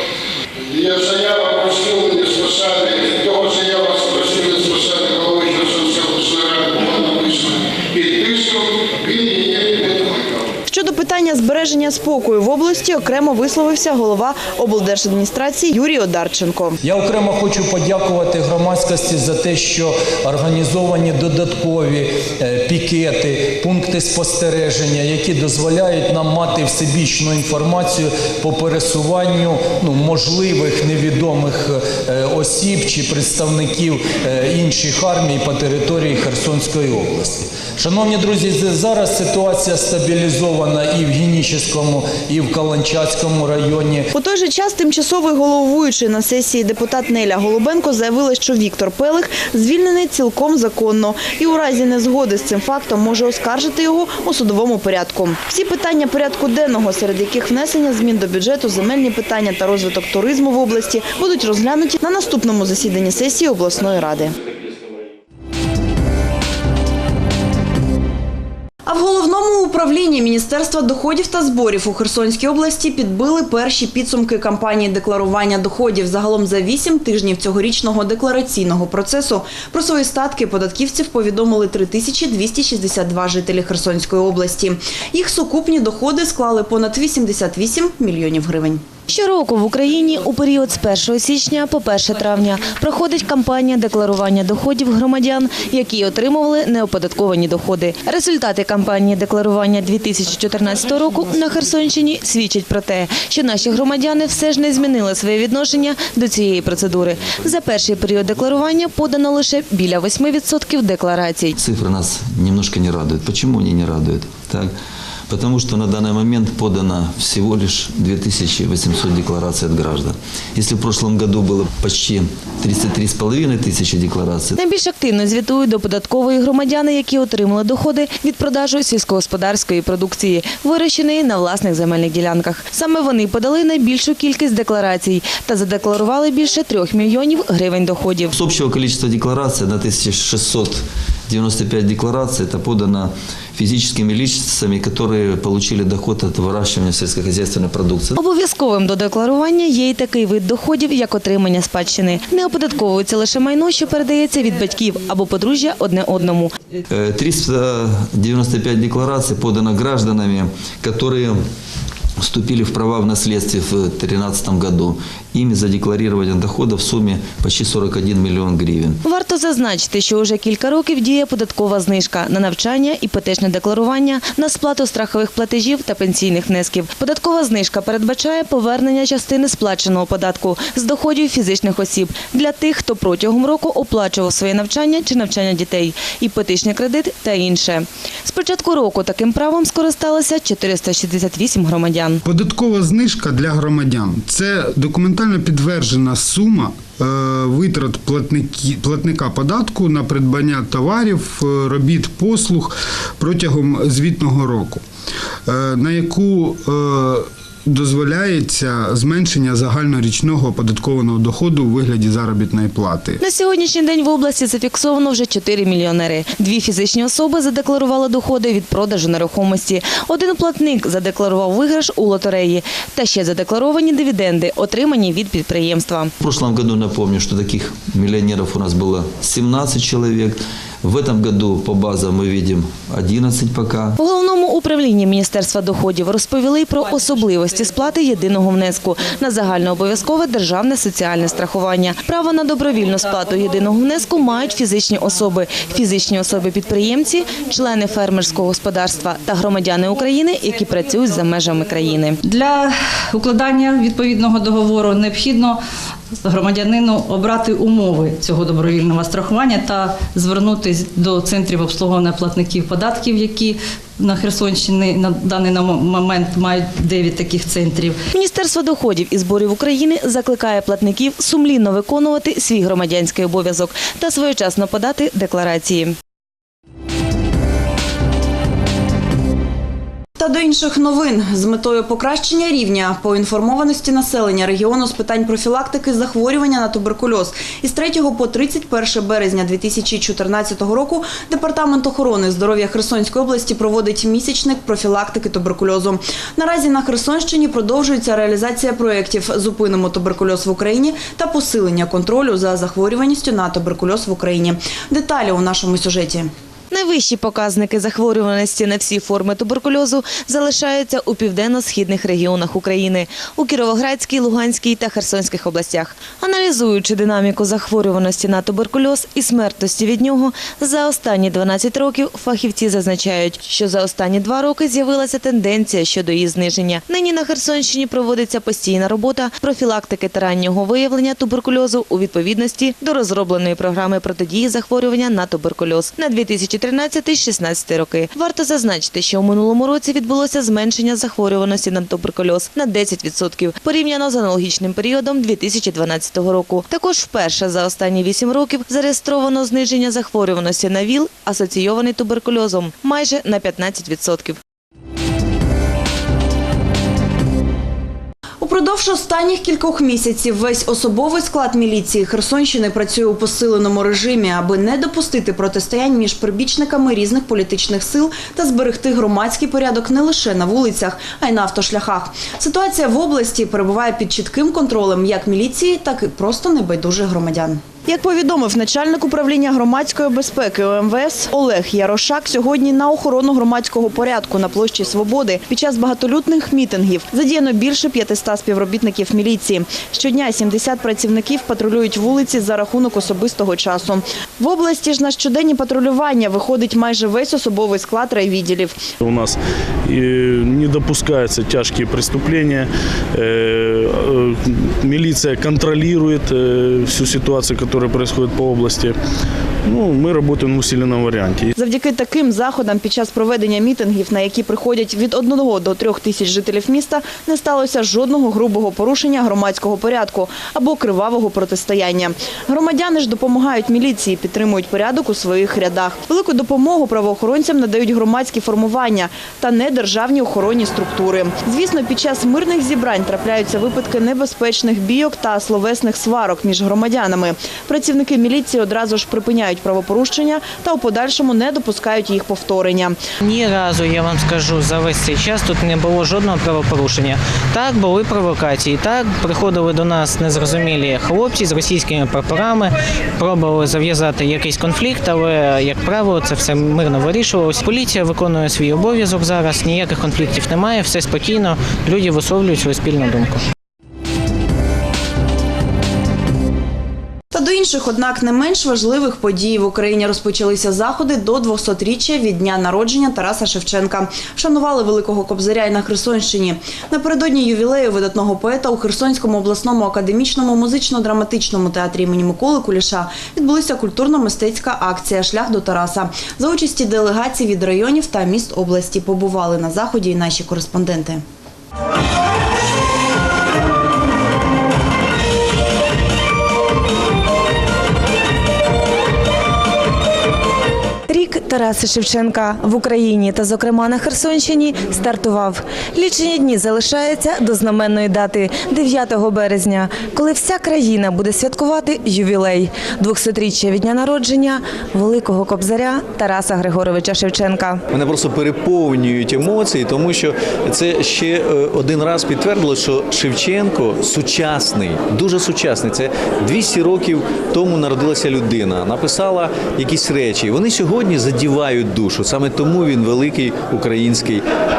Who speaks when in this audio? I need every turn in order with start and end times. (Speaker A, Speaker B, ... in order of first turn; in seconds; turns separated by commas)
Speaker A: 0.7-10.3, Speaker B: 10.7-16.8, Speaker C: 16.8-44.1, Speaker B: 44.1-64.3, Speaker B: 68.9-88.8, Speaker D: 89.1-111.6, Speaker E: 111.6-114.7, Speaker E: 115.3-124.6, Speaker D: 124.5-138.3, Speaker E: 138.3-148.1, Speaker D: 148.2-156.5, Speaker E: 156.9-161.4, Speaker E: 162.2-169.0, Speaker D: 169.0-192.2, Speaker F: 192.2-204.8, Speaker F: 205.5-213.2, Speaker D: 213.2-226.1, Speaker E: 226.2-234.0, Speaker D: 234.0-252.2, Speaker G: 252.2-255.6, Speaker G: 256.2-268.0, Speaker D: 268.1-276.0, Speaker B: 280.2-306.3, Speaker D: 306.7-354.4, Speaker B: 358.4-398.8, Speaker H: 399.0-409.0, Speaker H: 409.6-411.5, Speaker B: 411.6-443.0, Speaker I: 443.2-463.4, Speaker B: 467.3-491.2, Speaker D: 501.1-517.8, Speaker J: 517.9-534.4